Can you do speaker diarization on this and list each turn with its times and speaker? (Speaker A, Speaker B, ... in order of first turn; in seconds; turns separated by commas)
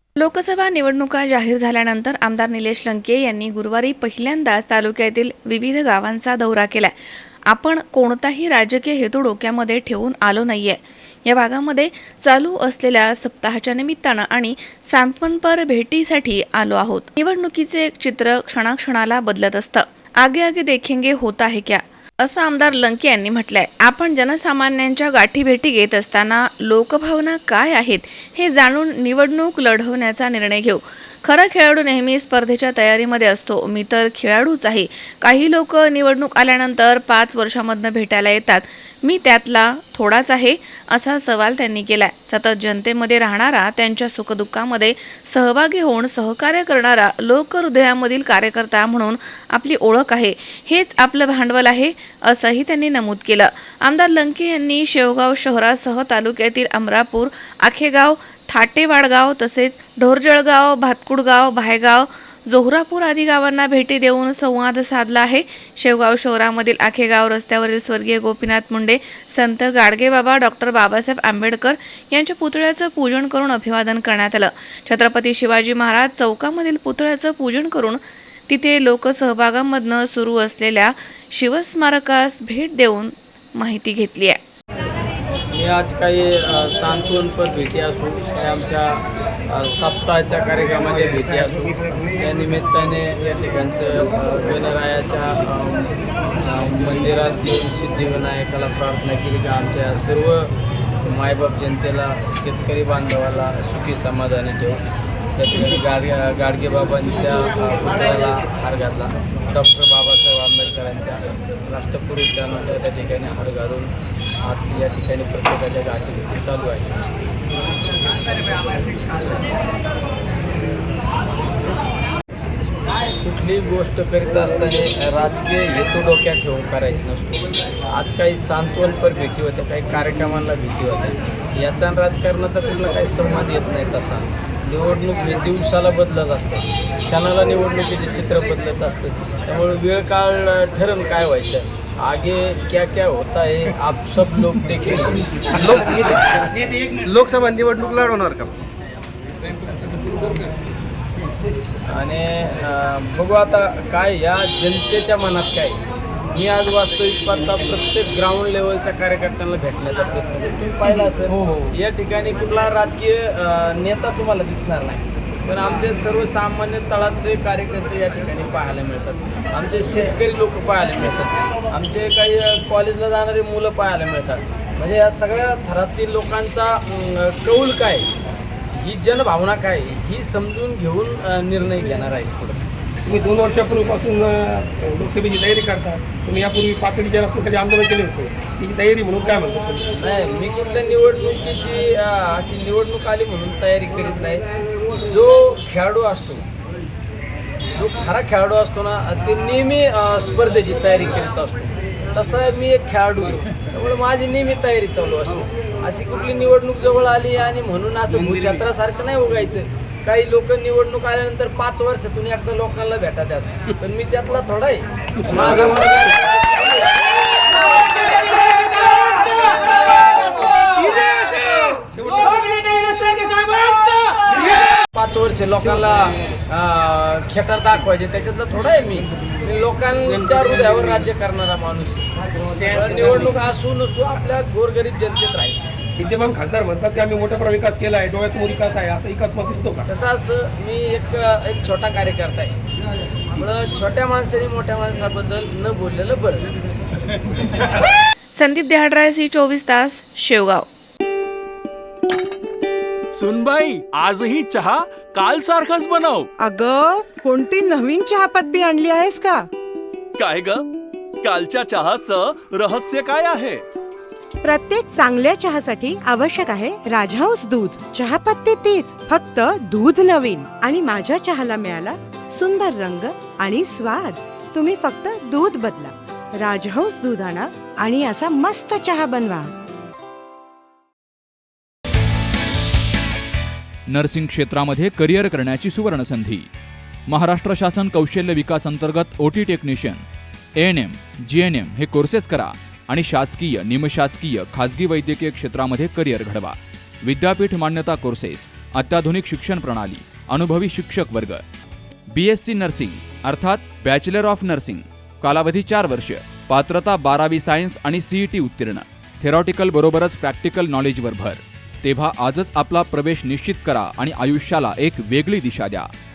Speaker A: 0.2-6.9, Speaker A: 7.5-84.4, Speaker B: 85.5-100.5, Speaker B: 101.0-104.8, Speaker B: 105.4-113.9, Speaker B: 114.4-117.0, Speaker B: 123.2-145.2, Speaker C: 145.5-146.2, Speaker C: 146.9-148.6, Speaker B: 151.9-155.8, Speaker B: 156.3-178.1, Speaker C: 161.3-161.7, Speaker B: 178.8-182.6, Speaker D: 183.1-189.9, Speaker B: 190.0-194.5, Speaker B: 195.1-196.4, Speaker B: 197.7-216.1, Speaker D: 208.1-208.6, Speaker D: 215.2-216.0, Speaker D: 218.9-219.5, Speaker D: 220.4-224.3, Speaker B: 224.9-232.1, Speaker B: 232.7-235.7, Speaker D: 236.0-239.9, Speaker B: 239.9-242.6, Speaker B: 243.3-246.4, Speaker A: 248.3-250.7, Speaker E: 253.1-256.3, Speaker F: 256.4-259.5, Speaker E: 260.2-260.7, Speaker E: 261.2-263.6, Speaker F: 264.4-279.5, Speaker G: 283.9-286.5, Speaker G: 287.1-290.0, Speaker G: 290.6-301.4, Speaker G: 302.1-315.9